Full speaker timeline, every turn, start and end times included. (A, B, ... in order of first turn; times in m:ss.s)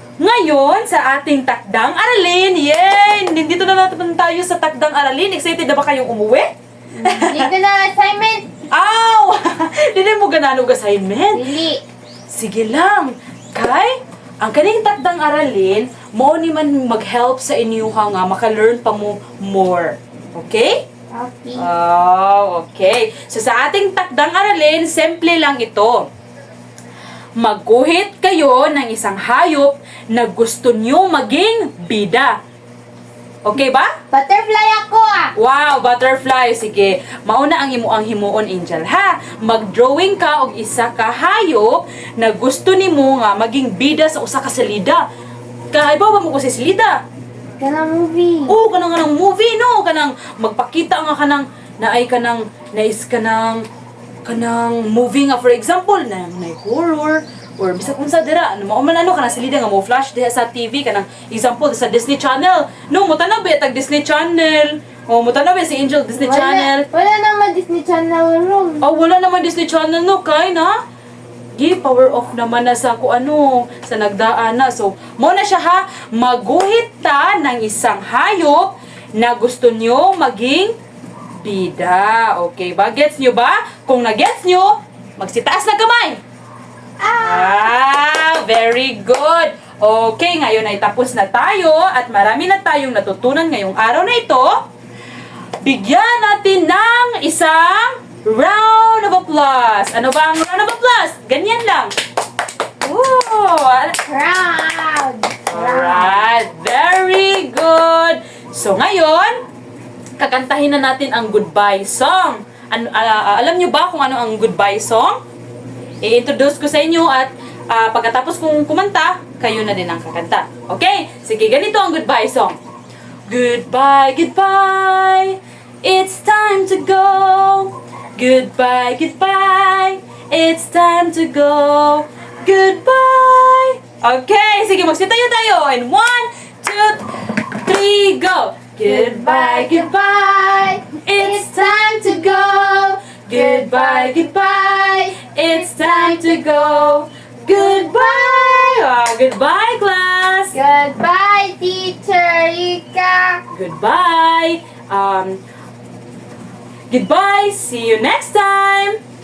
0:00.2-0:06.5 A
0:06.9-0:08.5 B
0:07.0-0:07.5 A
0:08.7-0:11.5 A
0:11.3-0:11.8 B
0:12.3-0:20.8 A
0:21.2-0:21.7 B
0:21.6-0:26.1 A
0:27.4-0:32.4 A
0:33.4-0:33.9 A
0:34.1-0:35.3 B
0:35.4-0:45.0 A
0:45.7-0:47.0 A
0:47.6-0:48.6 B
0:48.5-0:53.6 A
0:54.2-1:06.9 A
1:06.2-1:08.9 B
1:08.8-1:10.7 A
1:11.6-1:20.8 A
1:21.4-1:26.2 A
1:27.0-1:27.7 B
1:27.2-1:34.6 A
1:35.6-1:41.9 A
1:42.8-1:44.0 A
1:44.0-1:46.2 B
1:45.5-1:49.4 A
1:50.2-1:55.2 A
1:56.0-2:02.6 A
2:03.3-2:20.4 A
2:18.9-2:26.6 B
2:21.0-2:30.6 A
2:27.4-2:28.6 B
2:30.5-2:33.4 B
2:33.5-2:35.4 A
2:36.9-2:39.0 A